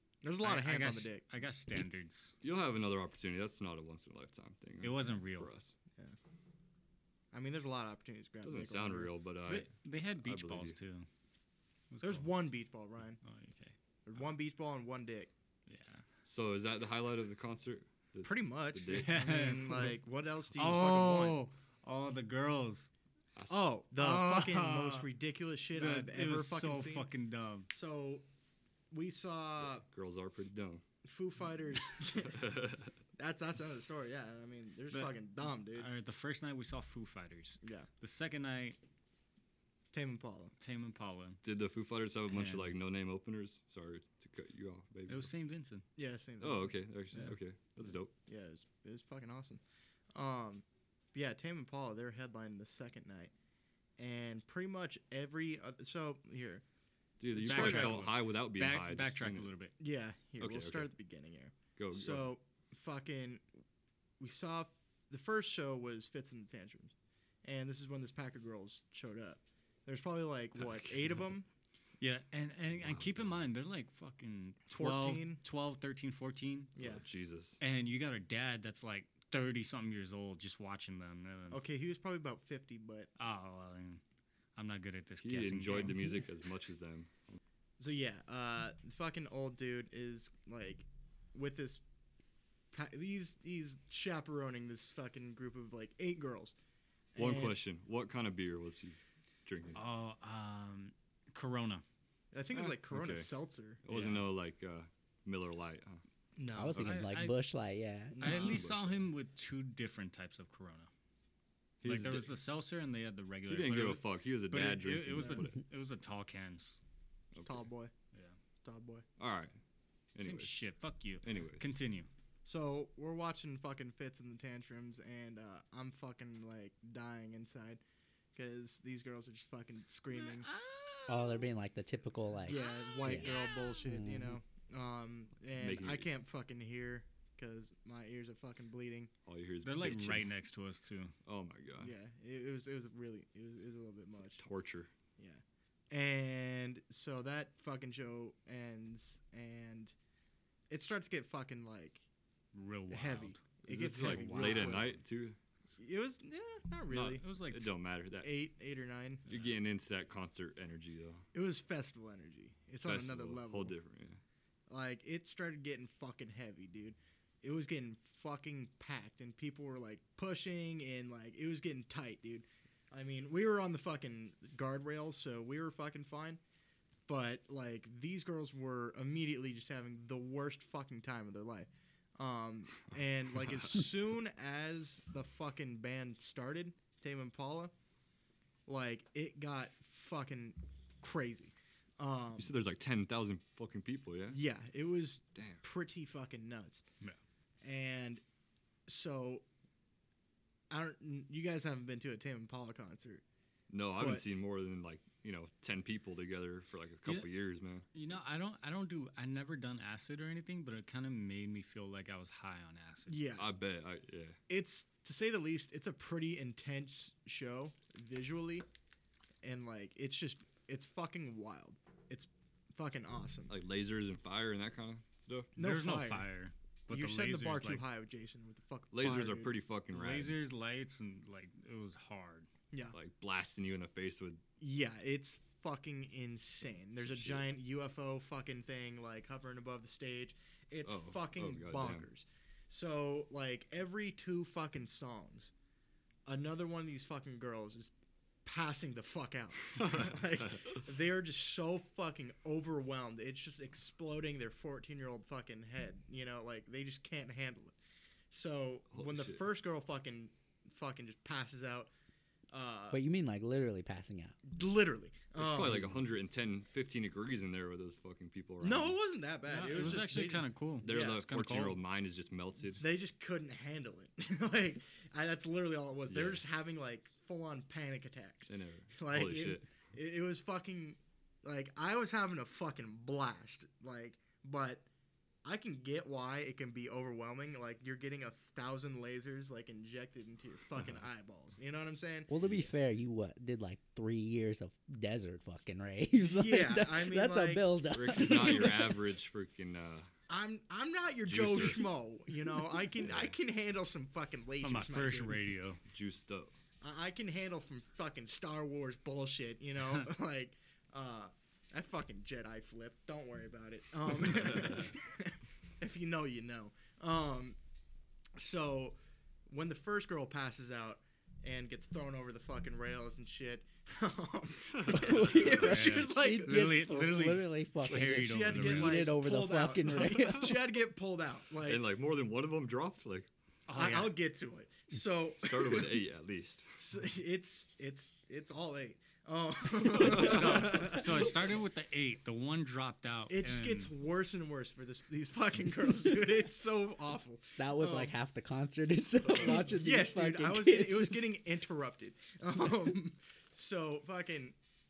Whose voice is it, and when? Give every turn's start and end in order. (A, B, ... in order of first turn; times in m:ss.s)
0:00.2-0:01.2 A
0:00.4-0:02.4 B
0:02.4-0:05.7 C
0:04.8-0:05.5 B
0:07.3-0:09.1 A
0:08.4-0:09.7 C
0:09.5-0:11.1 B
0:10.2-0:10.8 C
0:11.9-0:12.3 B
0:12.0-0:13.2 A
0:13.2-0:13.7 B
0:14.1-0:15.3 A
0:15.7-0:16.0 B
0:16.2-0:19.1 C
0:18.2-0:21.4 A
0:18.9-0:20.0 B
0:20.6-0:22.9 B
0:23.4-0:23.6 C
0:23.5-0:27.1 A
0:24.0-0:25.1 B
0:25.7-0:27.7 B
0:27.7-0:28.2 A
0:28.9-0:29.9 A
0:29.8-0:30.8 C
0:31.0-0:32.6 A
0:32.3-0:32.9 C
0:33.2-0:35.9 A
0:34.9-0:38.8 B
0:37.6-0:37.9 A
0:39.9-0:40.5 A
0:40.6-0:41.4 B
0:41.4-0:45.3 C
0:42.3-0:42.7 B
0:45.1-0:45.8 B
0:46.0-0:47.4 A
0:46.4-0:48.1 C
0:48.2-0:49.6 A
0:50.1-0:53.3 A
0:54.0-0:56.6 A
0:57.2-0:59.5 C
0:57.3-0:58.1 A
0:57.4-0:59.7 B
0:59.8-1:03.4 A
1:00.4-1:00.9 C
1:01.8-1:02.3 C
1:04.2-1:06.9 A
1:07.4-1:11.5 A
1:10.6-1:10.9 C
1:12.0-1:16.7 B
1:12.7-1:13.4 C
1:14.7-1:15.4 A
1:16.8-1:17.0 A
1:16.8-1:17.6 C
1:17.6-1:21.6 B
1:21.5-1:23.1 A
1:23.2-1:24.0 B
1:24.6-1:26.2 B
1:25.2-1:27.4 C
1:27.8-1:31.8 A
1:32.7-1:36.5 A
1:37.1-1:37.6 A
1:37.2-1:39.8 C
1:39.7-1:41.8 B
1:42.3-1:43.8 A
1:42.5-1:43.3 C
1:43.8-1:46.0 C
1:43.9-1:44.3 B
1:46.4-1:46.9 A
1:46.5-1:48.2 D
1:46.8-1:47.4 B
1:48.1-1:48.6 A
1:48.2-1:50.9 B
1:48.2-1:49.1 C
1:51.8-1:52.3 C
1:51.8-1:56.8 B
1:53.5-1:55.6 C
1:57.3-1:57.6 C
1:57.4-1:57.9 A
1:58.6-1:59.0 A
1:59.2-1:59.6 C
2:00.1-2:00.5 C
2:00.2-2:02.1 B
2:01.2-2:01.7 C
2:02.4-2:07.8 A
2:08.4-2:10.5 A
2:10.1-2:11.5 B
2:11.1-2:13.3 D
2:12.5-2:19.1 A
2:12.5-2:13.9 B
2:13.9-2:14.4 D
2:15.6-2:16.1 C
2:19.2-2:20.3 C
2:19.6-2:21.1 B
2:21.2-2:21.9 C
2:21.8-2:24.4 A
2:24.3-2:24.9 C
2:25.2-2:29.9 A
2:30.7-2:32.0 A
2:32.5-2:34.9 B
2:32.9-2:35.0 A
2:33.7-2:35.4 C
2:35.7-2:37.2 A
2:36.9-2:38.3 C
2:37.2-2:37.7 B
2:38.2-2:39.2 A
2:39.3-2:39.5 B
2:39.3-2:41.2 C
2:41.3-2:43.7 A
2:42.8-2:44.2 C
2:44.7-2:56.4 A
2:57.1-3:07.7 A
3:08.7-3:12.5 A
3:12.4-3:14.4 C
3:14.3-3:16.8 A
3:15.4-3:15.6 C
3:17.6-3:18.2 A
3:18.9-3:19.4 A
3:20.7-3:23.2 A
3:23.7-3:27.8 C
3:24.0-3:24.2 A
3:27.9-3:33.2 B
3:33.1-3:33.5 A
3:33.4-3:34.4 C
3:34.5-3:38.6 A
3:39.4-3:43.5 A
3:43.5-3:45.5 C
3:45.6-3:46.3 A
3:45.6-3:47.8 B
3:46.9-3:49.5 A
3:48.9-3:50.4 C
3:49.9-3:52.5 B
3:52.9-3:54.4 C
3:54.6-4:05.5 A
3:57.0-3:57.5 C
4:00.8-4:02.1 C
4:06.2-4:07.9 A
4:08.4-4:17.7 A
4:09.8-4:10.7 C
4:18.3-4:21.9 A
4:18.9-4:19.4 C
4:22.5-4:23.0 A
4:22.9-4:24.4 D
4:24.4-4:25.9 A
4:25.4-4:29.0 C
4:28.6-4:31.2 A
4:29.5-4:31.8 B
4:29.7-4:30.0 C
4:30.8-4:32.8 C
4:32.8-4:44.9 A
4:36.1-4:36.4 C
4:38.5-4:39.7 C
4:45.4-4:52.3 A
4:52.3-4:59.0 D
4:56.2-4:57.7 A
4:57.9-5:00.1 C
5:00.3-5:05.4 A
5:01.2-5:01.9 C
5:03.0-5:03.3 C
5:04.6-5:05.8 B
5:05.9-5:06.5 C
5:06.8-5:17.6 A
5:18.4-5:19.0 A
5:19.5-5:26.9 A
5:24.8-5:25.5 C
5:24.9-5:30.8 D
5:25.4-5:29.1 B
5:27.9-5:31.8 A
5:31.6-5:33.3 C
5:33.7-5:34.1 B
5:33.7-5:35.9 A
5:35.4-5:36.7 C
5:36.8-5:41.4 A
5:39.9-5:40.9 C
5:40.0-5:43.9 B
5:43.3-5:48.1 A
5:47.6-5:51.4 D
5:49.3-5:49.7 C
5:49.3-5:54.6 A